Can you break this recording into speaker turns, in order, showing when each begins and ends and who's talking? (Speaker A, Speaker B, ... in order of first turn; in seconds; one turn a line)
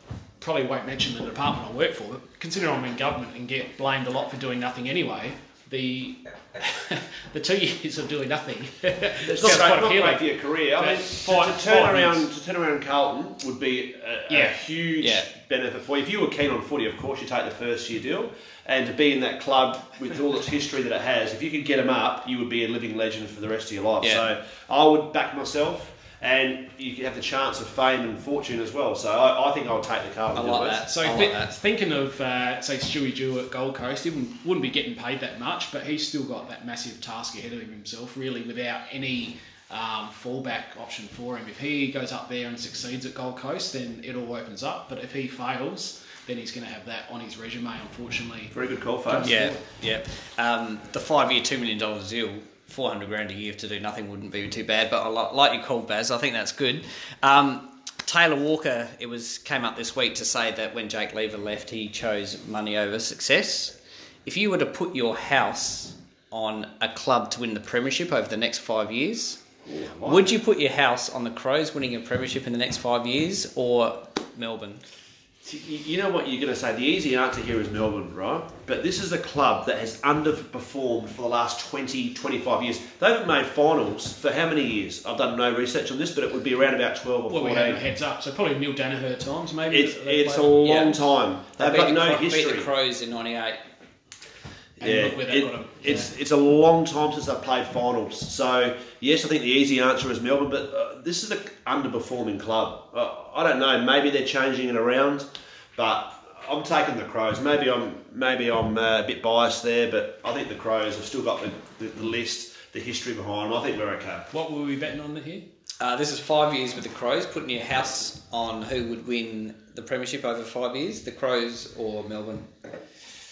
Speaker A: 0.4-12.2
Speaker B: 9.2-30.8
Speaker A: 14.3-14.6
Speaker C: 15.0-15.3
Speaker C: 30.4-31.5
Speaker A: 30.9-48.5
Speaker B: 48.5-49.4
Speaker A: 49.1-49.6
Speaker C: 49.2-63.8
Speaker C: 64.3-69.4
Speaker B: 69.7-70.3
Speaker C: 70.0-74.8
Speaker B: 75.4-87.8
Speaker A: 87.3-90.9
Speaker B: 89.7-92.7
Speaker C: 90.6-91.0
Speaker C: 91.6-93.6
Speaker A: 94.8-96.1
Speaker B: 94.8-114.3
Speaker A: 114.3-115.5
Speaker C: 115.8-122.5